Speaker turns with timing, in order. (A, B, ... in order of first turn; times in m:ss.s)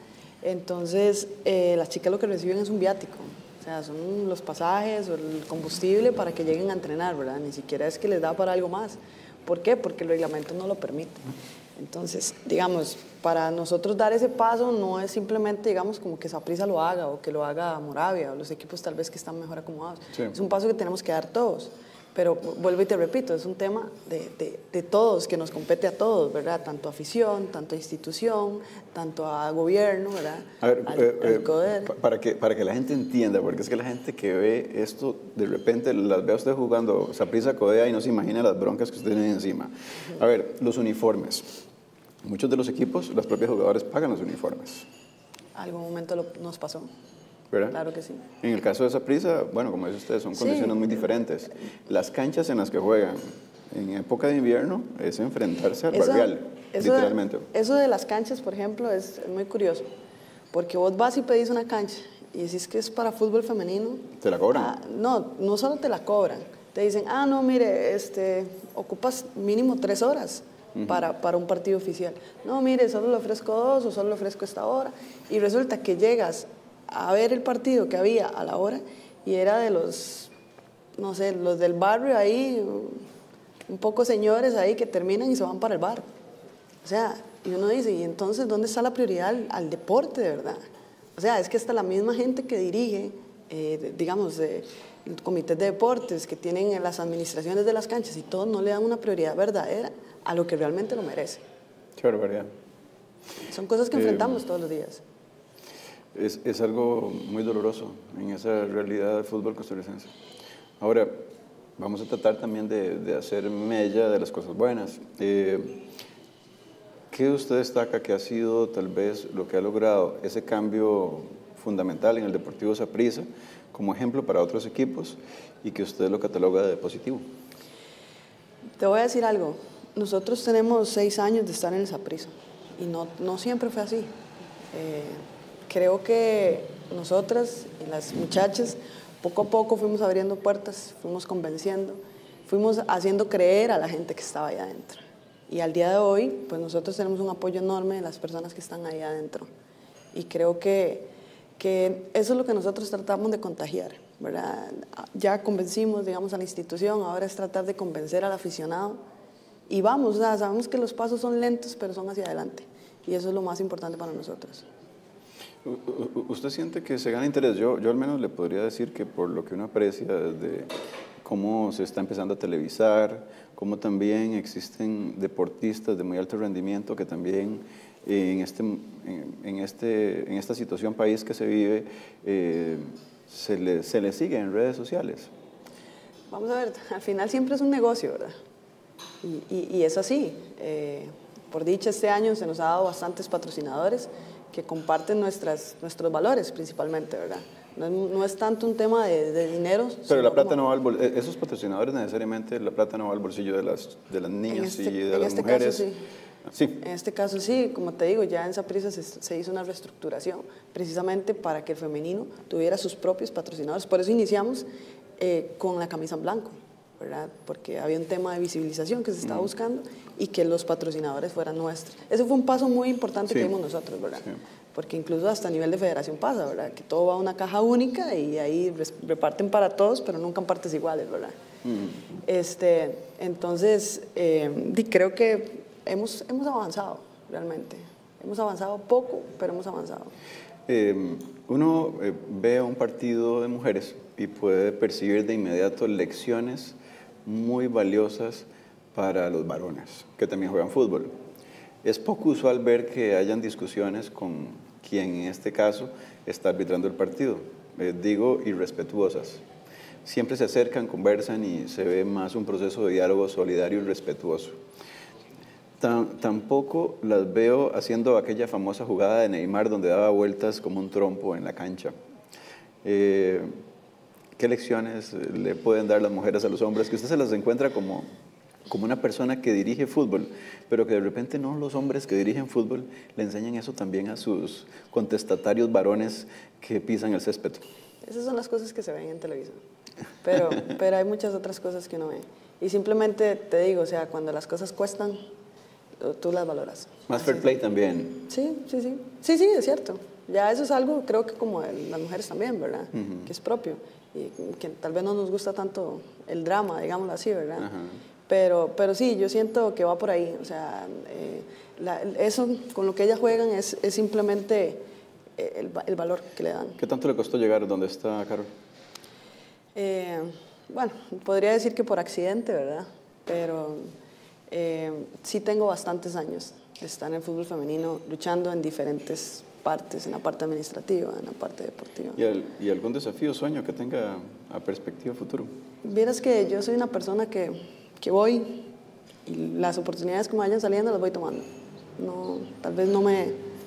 0:00.4-0:11.2 A
0:11.8-0:31.9 A
0:30.6-0:41.6 B
0:42.2-0:44.8 B
0:45.5-0:46.9 A
0:47.5-0:47.8 B
0:47.7-0:48.2 A
0:48.4-0:57.5 B
0:50.4-0:50.8 A
0:55.9-0:59.8 A
1:00.5-1:20.3 A
1:04.2-1:04.7 B
1:10.7-1:11.0 B
1:21.0-1:23.0 A
1:23.7-1:26.0 A
1:26.8-1:30.6 A
1:31.2-1:41.4 A
1:42.0-1:42.5 B
1:43.5-1:45.0 A
1:44.0-1:44.2 B
1:46.1-1:50.1 B
1:50.8-1:51.2 B
1:51.8-1:55.8 B
1:57.1-2:07.2 B
2:08.8-2:14.2 A
2:14.7-2:29.5 A
2:30.1-2:39.0 A
2:39.7-2:44.6 A
2:45.6-3:05.3 B
3:06.3-3:08.3 A
3:09.2-3:20.6 A
3:20.1-3:25.8 B
3:24.5-3:26.0 A
3:26.5-3:26.8 B
3:26.8-3:34.6 A
3:35.2-3:51.3 A
3:51.6-3:51.9 B
3:52.2-4:00.1 A
4:00.7-4:11.1 B
4:11.8-4:19.4 B
4:20.0-4:24.6 B
4:25.8-4:31.9 B
4:32.8-4:33.5 B
4:34.4-4:38.1 B
4:38.7-4:47.6 B
4:48.0-4:49.6 A
4:50.2-4:55.2 A
4:56.0-4:57.4 A
4:57.1-4:58.2 B
4:58.3-5:07.7 A
5:02.9-5:03.3 B
5:07.6-5:07.9 B
5:08.3-5:14.8 A
5:15.4-5:16.8 A
5:16.8-5:18.5 B
5:19.7-5:23.9 A
5:24.5-5:32.2 A
5:32.2-5:35.5 B
5:35.8-5:38.7 A
5:39.2-5:43.4 A